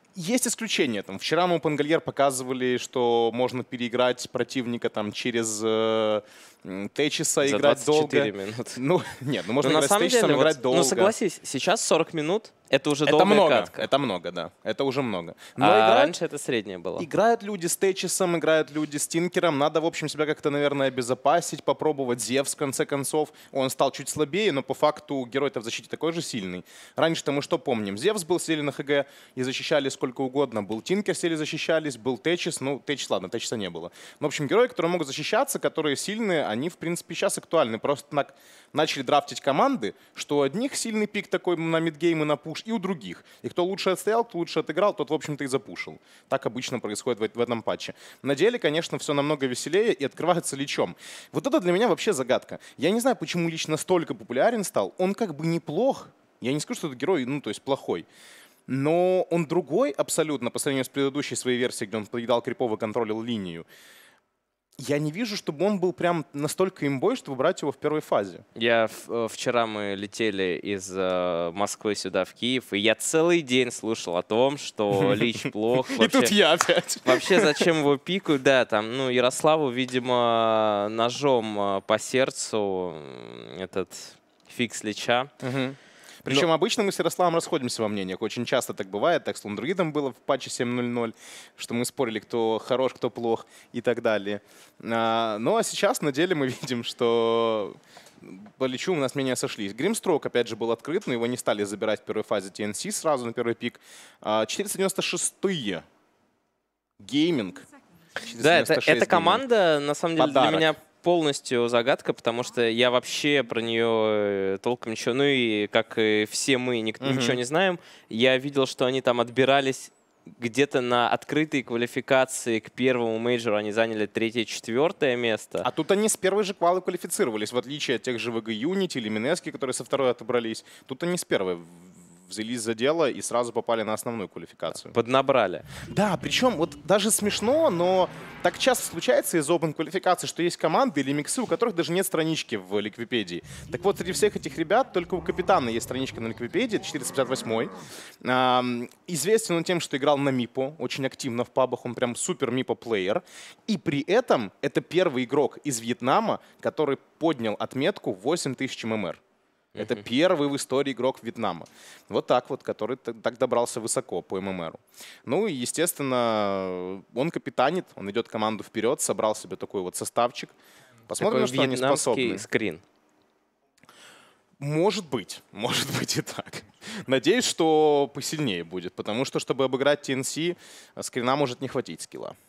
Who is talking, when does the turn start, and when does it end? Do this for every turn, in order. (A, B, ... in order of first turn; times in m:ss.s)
0:00.2-0:11.1 A
0:07.4-0:08.8 B
0:09.6-0:13.9 B
0:13.0-0:16.2 A
0:15.6-0:17.1 B
0:17.0-0:58.1 A
0:58.7-1:03.7 A
1:04.8-1:08.4 A
1:08.6-1:16.3 B
1:15.0-1:17.7 A
1:17.0-1:25.3 B
1:25.4-1:45.8 A
1:47.0-1:49.5 A
1:48.4-2:05.7 B
1:50.2-1:50.7 A
1:57.0-1:57.4 A
2:05.6-2:14.9 A
2:14.8-2:15.7 B
2:15.9-2:39.2 A
2:39.8-2:40.0 B
2:39.8-2:50.6 A
2:51.1-2:52.4 A
2:51.2-2:52.8 B
2:54.6-3:02.4 A